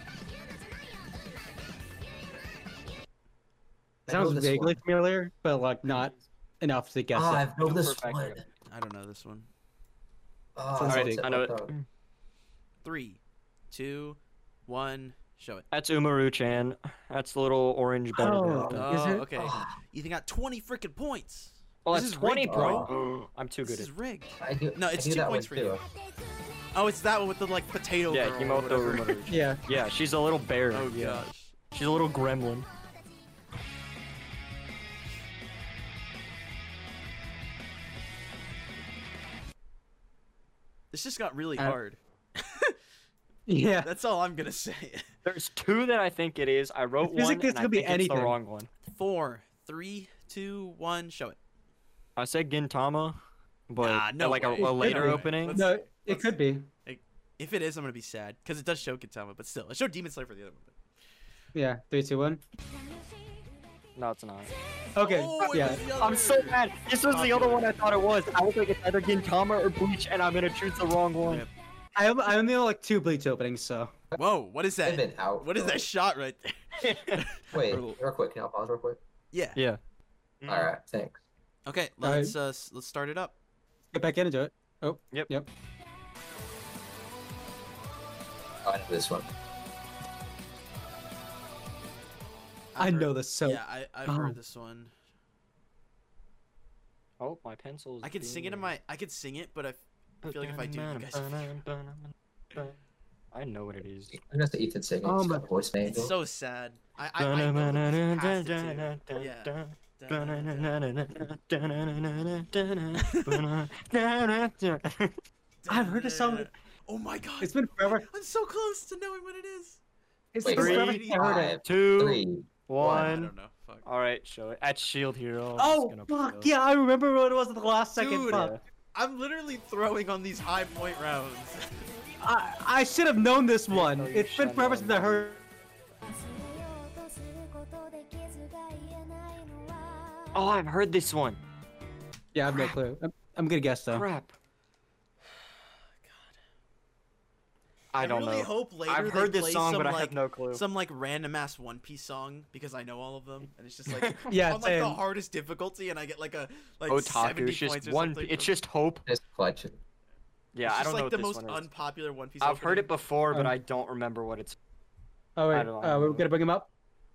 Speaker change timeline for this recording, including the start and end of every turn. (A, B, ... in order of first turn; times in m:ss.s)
0:04.1-0:04.8 A
0:04.1-0:07.5 B
0:05.9-0:06.2 C
0:07.1-0:08.4 A
0:07.6-0:08.4 C
0:08.7-0:09.5 D
0:10.6-0:11.7 A
0:10.8-0:11.2 B
0:10.8-0:11.9 C
0:12.8-0:13.2 D
0:13.7-0:15.7 D
0:15.7-0:18.9 C
0:18.2-0:19.3 B
0:18.7-0:22.9 D
0:19.4-0:19.8 A
0:21.8-0:23.9 C
0:22.5-0:22.9 A
0:23.6-0:25.8 D
0:24.4-0:25.8 A
0:26.7-0:29.3 D
0:28.1-0:32.7 C
0:29.3-0:29.6 B
0:30.7-0:31.6 D
0:40.9-0:42.8 D
0:43.5-0:43.9 B
0:43.8-0:45.1 D
0:45.2-0:48.7 C
0:47.0-0:48.4 B
0:48.9-0:51.4 D
0:52.2-0:53.2 C
0:53.7-0:55.6 C
0:53.8-0:56.3 D
0:54.6-0:56.7 B
0:56.9-1:00.7 D
1:01.6-1:02.4 B
1:04.0-1:04.5 C
1:05.0-1:05.8 B
1:05.0-1:07.8 D
1:05.4-1:11.5 C
1:11.2-1:11.5 D
1:12.0-1:13.9 B
1:14.2-1:18.0 D
1:14.8-1:15.8 A
1:16.8-1:17.3 C
1:17.5-1:19.0 A
1:19.3-1:19.6 D
1:20.4-1:20.7 C
1:20.5-1:21.2 A
1:21.7-1:23.3 D
1:22.0-1:22.4 B
1:23.9-1:25.5 B
1:28.6-1:29.3 A
1:32.8-1:34.9 D
1:32.8-1:34.4 B
1:37.2-1:38.7 C
1:38.0-1:41.5 D
1:40.2-1:42.8 C
1:43.3-1:44.2 C
1:44.1-1:46.1 A
1:45.0-1:45.5 B
1:45.8-1:50.8 D
1:47.2-1:55.2 C
1:53.0-1:53.4 D
1:55.6-1:59.8 D
1:55.7-1:56.5 B
1:57.4-1:58.1 B
2:00.3-2:01.6 B
2:00.4-2:03.2 A
2:00.5-2:01.0 C
2:00.5-2:01.3 D
2:01.6-2:03.3 C
2:02.8-2:03.9 D
2:03.8-2:06.5 C
2:05.6-2:08.5 B
2:08.0-2:11.9 D
2:08.3-2:08.6 C
2:12.2-2:15.4 B
2:13.7-2:15.4 C
2:16.2-2:20.3 E
2:20.3-2:21.4 C
2:22.4-2:24.1 B
2:23.9-2:24.3 C
2:26.0-2:26.3 D
2:27.9-2:30.6 C
2:28.0-2:38.6 D
2:33.9-2:34.2 C
2:34.3-2:35.0 B
2:36.9-2:39.0 C
2:39.1-2:39.8 A
2:40.5-2:41.7 C
2:40.6-2:42.9 D
2:42.4-2:44.6 C
2:45.4-2:46.7 B
2:45.5-2:46.3 C